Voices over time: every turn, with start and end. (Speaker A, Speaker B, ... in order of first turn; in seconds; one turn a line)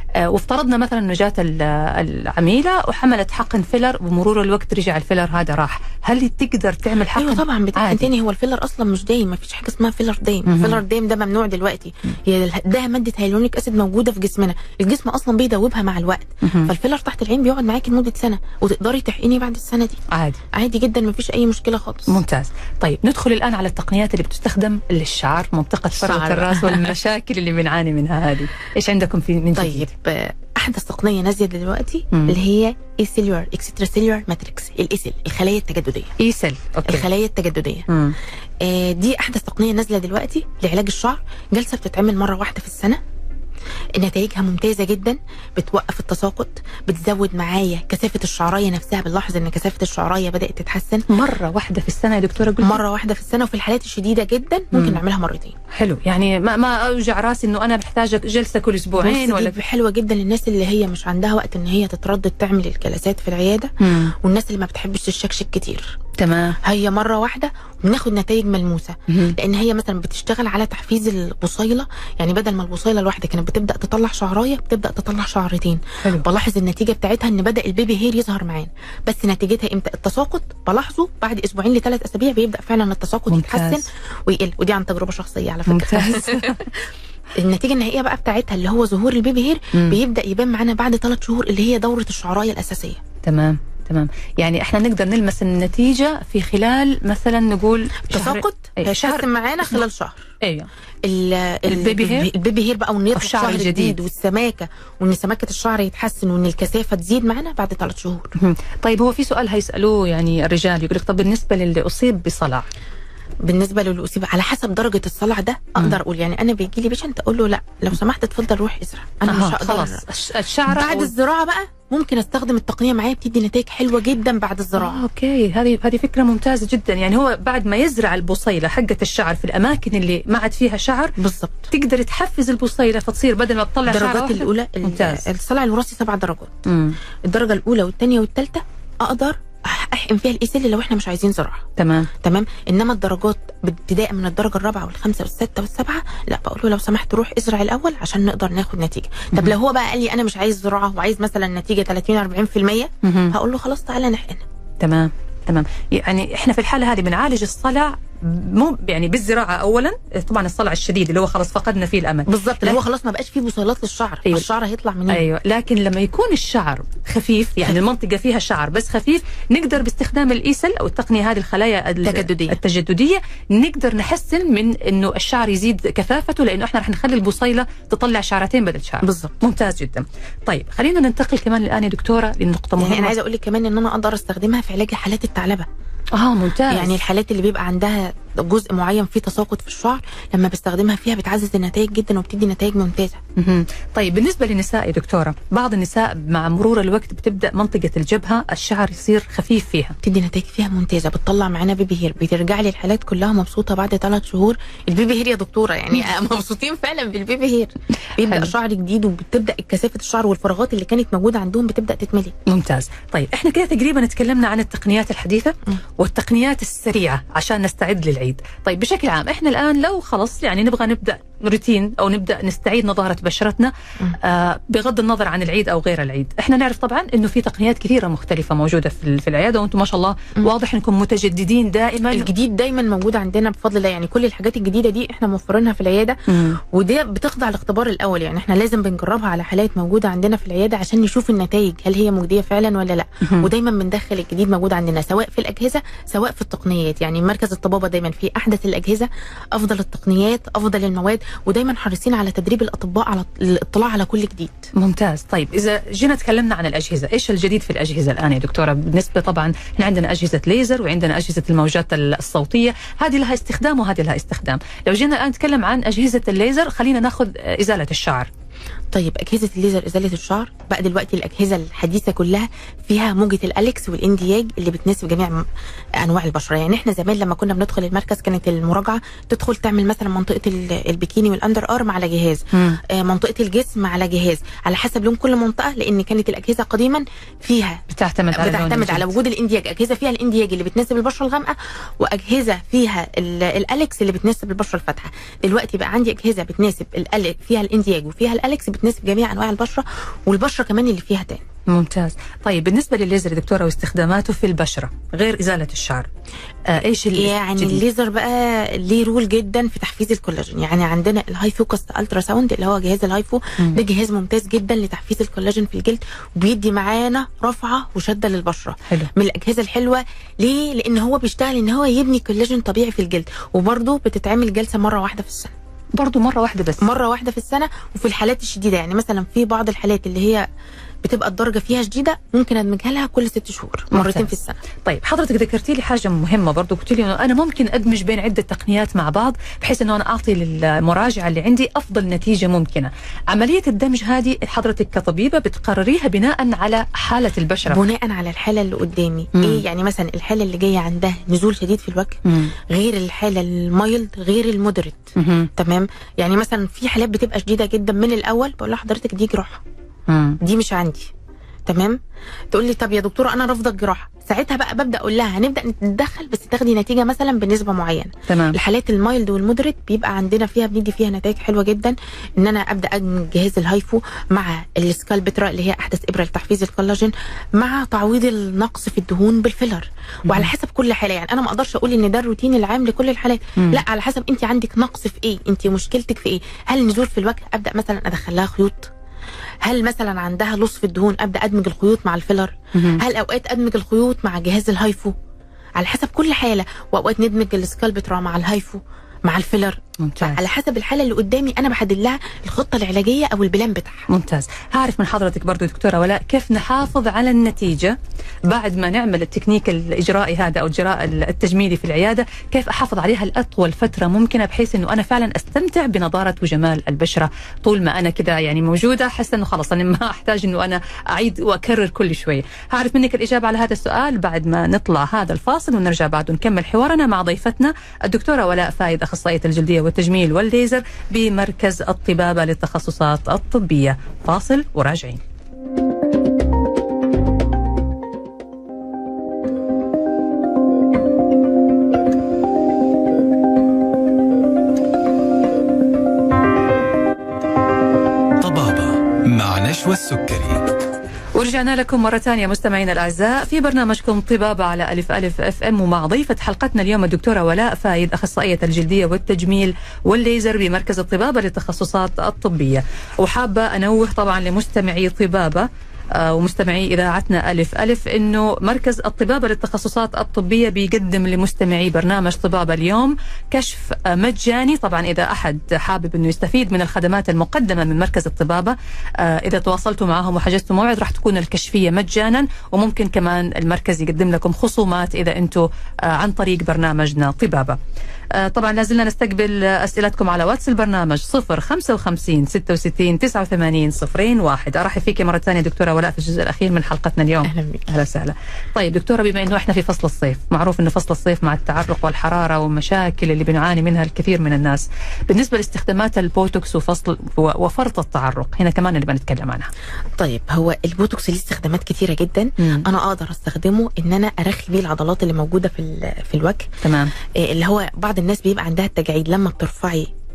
Speaker A: 0.2-8.1
Speaker B: 7.1-20.0
Speaker A: 10.4-10.8
Speaker A: 16.4-16.7
Speaker A: 20.1-20.4
Speaker B: 20.5-22.2
Speaker A: 22.1-29.9
Speaker B: 25.9-27.0
Speaker B: 29.6-36.1
Speaker A: 32.1-32.4
Speaker A: 36.2-37.1
Speaker B: 36.9-37.9
Speaker A: 37.9-38.1
Speaker B: 38.6-43.0
Speaker B: 44.0-51.0
Speaker A: 51.1-52.8
Speaker B: 52.6-55.5
Speaker A: 54.7-55.0
Speaker A: 55.7-59.6
Speaker B: 59.0-66.0
Speaker A: 63.8-64.1
Speaker A: 66.2-66.6
Speaker B: 66.6-86.8
Speaker A: 69.1-69.4
Speaker A: 83.3-83.8
Speaker A: 85.7-86.7
Speaker B: 87.3-93.0
Speaker A: 89.7-90.0
Speaker A: 93.2-99.8
Speaker B: 98.1-100.3
Speaker A: 100.4-100.7
Speaker B: 101.0-108.3
Speaker A: 101.7-102.3
Speaker A: 103.1-104.0
Speaker A: 108.4-112.7
Speaker B: 113.4-120.0
Speaker A: 119.2-121.1
Speaker B: 120.7-125.0
Speaker A: 124.8-131.2
Speaker B: 131.2-131.7
Speaker A: 131.7-135.3
Speaker B: 133.9-136.6
Speaker A: 136.6-136.9
Speaker B: 137.2-141.7
Speaker A: 141.8-142.1
Speaker B: 142.2-154.4
Speaker A: 153.0-153.3
Speaker A: 154.8-162.8
Speaker B: 162.3-165.2
Speaker A: 165.1-183.2
Speaker B: 172.0-172.6
Speaker B: 179.0-179.4
Speaker B: 182.8-185.7
Speaker A: 186.1-187.0
Speaker B: 186.7-193.2
Speaker A: 193.4-199.9
Speaker B: 200.0-212.3
Speaker A: 208.2-208.5
Speaker A: 212.5-232.3
Speaker B: 232.1-254.7
Speaker A: 236.3-236.6
Speaker A: 243.2-243.5
Speaker A: 254.7-268.3
Speaker B: 268.9-275.4
Speaker B: 276.0-301.4
Speaker A: 282.5-282.8
Speaker A: 287.9-289.1
Speaker A: 301.7-306.1
Speaker A: 306.6-307.8
Speaker B: 307.1-325.5
Speaker A: 325.9-326.9
Speaker B: 326.8-330.4
Speaker B: 331.0-334.6
Speaker A: 333.9-347.8
Speaker B: 347.7-359.6
Speaker A: 349.3-349.6
Speaker A: 352.2-352.5
Speaker A: 355.1-355.5
Speaker A: 360.1-360.4
Speaker B: 360.4-361.1
Speaker B: 361.6-362.0
Speaker B: 362.5-388.9
Speaker A: 368.3-368.6
Speaker B: 389.6-395.1
Speaker A: 392.7-393.0
Speaker B: 395.8-404.1
Speaker A: 400.0-400.4
Speaker A: 404.1-407.9
Speaker A: 408.5-435.2
Speaker C: 448.4-450.6
Speaker A: 451.3-487.8
Speaker A: 488.3-509.7
Speaker B: 497.4-497.8
Speaker B: 510.2-516.7
Speaker A: 512.6-512.9
Speaker A: 516.8-517.1
Speaker B: 517.3-520.1